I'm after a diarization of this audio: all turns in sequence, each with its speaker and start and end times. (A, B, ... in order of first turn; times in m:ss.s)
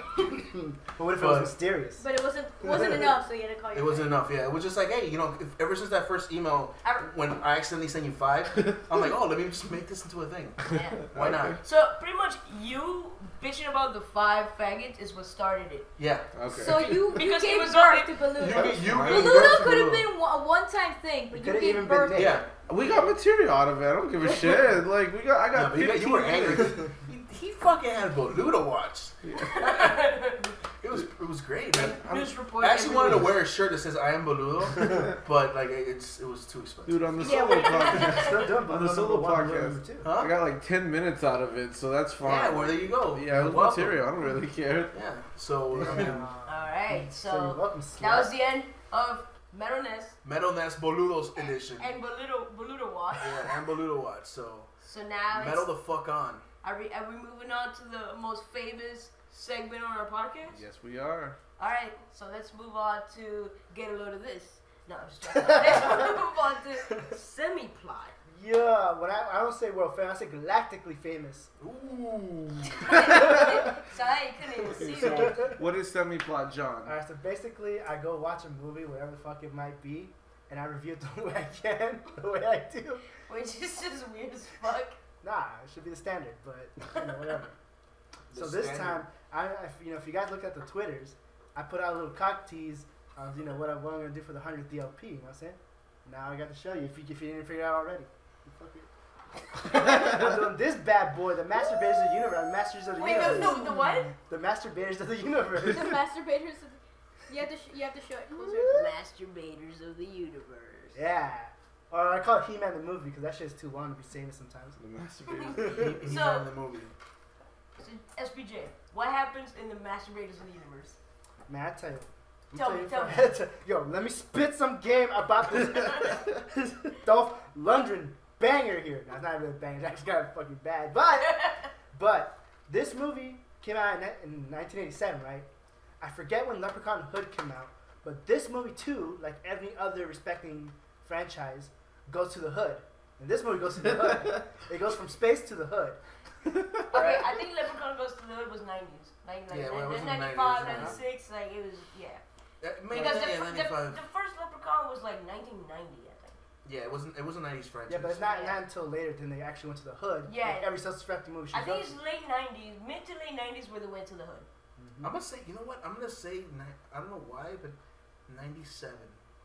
0:00.2-0:02.0 A
0:01.1-0:01.6 B
0:02.0-0:04.1 C
0:02.6-0:03.1 A
0:03.7-0:11.6 B
0:10.7-0:11.1 D
0:11.1-0:11.5 E
0:11.6-0:15.9 D
0:16.0-0:17.0 B
0:16.3-0:17.0 E
0:16.6-0:22.3 C
0:17.1-0:18.1 D
0:18.3-0:20.1 B
0:18.5-0:19.6 E
0:21.3-0:22.4 A
0:22.1-0:22.5 B
0:22.7-0:26.7 E
0:25.5-0:30.0 B
0:29.2-0:29.6 E
0:29.5-0:30.5 D
0:30.8-0:37.1 B
0:31.7-0:33.4 D
0:36.9-0:44.9 E
0:37.2-0:38.5 D
0:37.9-0:40.1 A
0:40.0-0:40.4 B
0:42.2-0:44.1 B
0:44.9-0:46.3 B
0:45.8-0:48.3 A
0:45.9-0:46.1 E
0:46.4-0:50.2 D
0:50.2-0:51.9 B
0:51.8-0:53.5 D
0:53.2-0:54.7 B
0:54.8-0:55.7 D
0:55.3-0:56.4 B
0:56.6-1:00.6 D
1:00.5-1:01.4 E
1:01.6-1:08.2 D
1:08.3-1:11.5 A
1:11.6-1:12.8 B
1:12.7-1:15.5 D
1:14.7-1:17.0 E
1:14.8-1:15.5 A
1:16.8-1:23.1 A
1:23.2-1:25.0 D
1:25.2-1:27.5 A
1:28.3-1:29.0 B
1:28.3-1:38.9 A
1:39.5-1:46.0 A
1:42.9-1:44.1 D
1:43.2-1:43.8 C
1:45.6-1:48.8 C
1:48.6-1:51.0 D
1:50.9-1:54.8 A
1:54.8-1:56.1 E
1:55.3-1:56.5 D
1:55.6-1:56.9 B
1:57.8-2:01.0 D
2:01.5-2:15.5 A
2:02.5-2:03.2 D
2:16.0-2:26.0 A
2:26.9-2:32.2 D
2:26.9-2:27.4 A
2:29.5-2:31.0 B
2:30.7-2:31.0 A
2:32.6-2:34.0 B
2:32.9-2:36.4 D
2:36.6-2:38.2 B
2:37.9-2:42.0 A
2:38.2-2:38.6 D
2:40.2-2:40.7 D
2:41.5-2:44.5 D
2:44.8-2:45.2 A
2:45.0-2:47.8 B
2:48.3-2:49.2 B